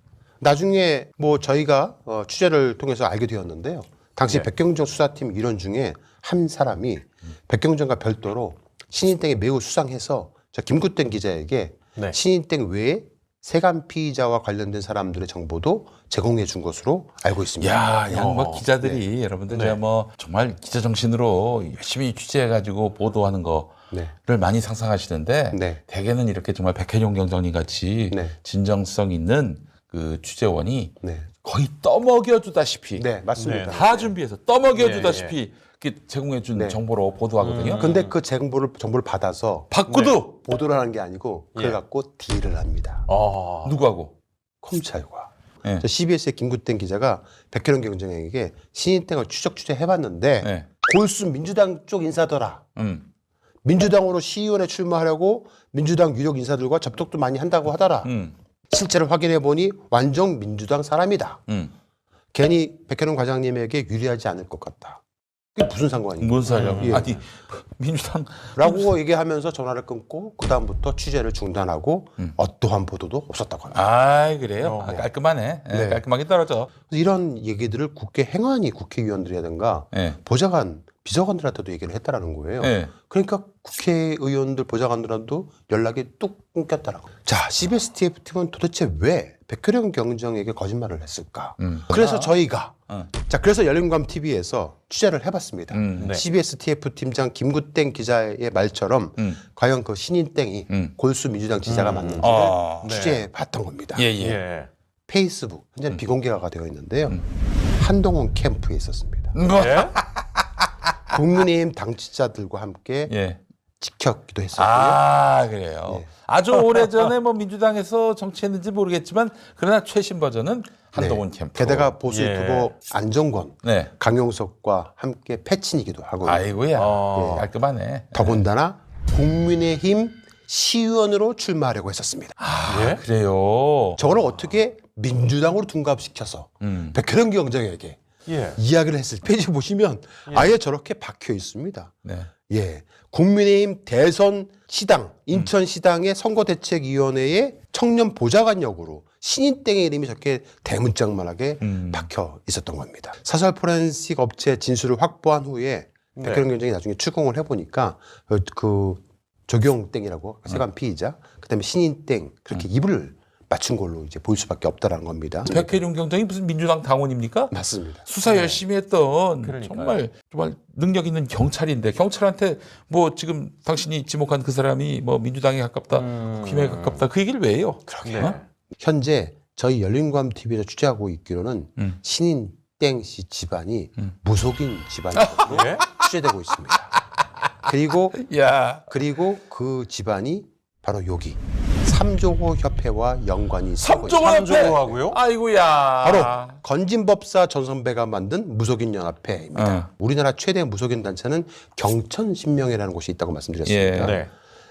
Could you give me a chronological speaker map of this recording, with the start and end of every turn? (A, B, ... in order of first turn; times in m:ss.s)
0:00.4-0:17.8 A
0:17.6-0:33.1 B
0:18.1-0:18.6 C
0:19.5-0:19.8 C
0:25.5-0:25.8 A
0:28.1-0:28.4 A
0:31.0-0:31.3 A
0:33.0-0:34.1 A
0:33.4-0:33.9 C
0:33.7-0:37.9 B
0:34.8-0:35.4 C
0:36.5-0:36.8 A
0:37.4-0:38.1 C
0:37.6-0:43.1 A
0:39.7-0:40.4 B
0:39.9-0:40.2 C
0:43.1-0:43.8 C
0:43.6-0:44.2 B
0:44.6-0:52.6 A
0:50.4-0:50.7 B
0:52.8-0:53.1 B
0:53.6-0:58.1 A
0:58.0-0:58.3 B
0:58.7-1:01.4 A
1:01.5-1:01.7 B
1:02.3-1:05.0 A
1:05.5-1:07.1 A
1:06.2-1:09.0 B
1:06.5-1:07.2 C
1:08.5-1:13.8 A
1:13.7-1:16.7 B
1:14.6-1:15.0 C
1:15.7-1:16.0 A
1:16.9-1:44.1 A
1:19.9-1:20.2 B
1:22.6-1:22.9 B
1:31.6-1:32.4 B
1:35.7-1:36.2 B
1:36.0-1:36.2 C
1:41.6-1:43.2 C
1:42.2-1:43.1 B
1:44.0-1:44.4 B
1:44.2-1:44.7 C
1:45.1-1:47.2 A
1:47.7-1:49.4 A
1:49.4-1:50.9 B
1:49.5-1:50.0 C
1:51.1-1:53.1 A
1:53.1-1:53.4 B
1:53.8-1:55.0 A
1:54.5-2:02.0 B
2:01.0-2:07.5 A
2:02.1-2:02.7 C
2:03.6-2:03.9 B
2:06.2-2:08.4 B
2:06.8-2:07.4 C
2:08.1-2:12.4 A
2:12.4-2:14.1 B
2:12.7-2:13.0 C
2:14.0-2:18.0 A
2:16.6-2:17.0 B
2:18.2-2:18.6 C
2:18.6-2:21.9 A
2:20.3-2:20.5 C
2:22.0-2:22.3 B
2:22.5-2:45.7 A
2:31.6-2:32.1 B
2:36.2-2:36.4 C
2:45.4-2:47.5 B
2:47.5-2:48.1 A
2:48.0-2:58.4 B
2:48.2-2:48.6 C
2:49.4-2:50.0 C
2:55.9-2:57.1 C
2:57.9-3:06.9 A
2:58.0-2:58.4 C
3:05.2-3:05.8 B
3:05.5-3:05.9 C
3:07.6-3:08.2 A
3:08.2-3:08.9 B
3:08.9-3:14.9 A
3:13.8-3:16.6 B
3:14.1-3:15.2 C
3:16.0-3:24.2 A
3:19.6-3:19.9 B
3:23.6-3:24.2 B
3:24.0-3:24.3 C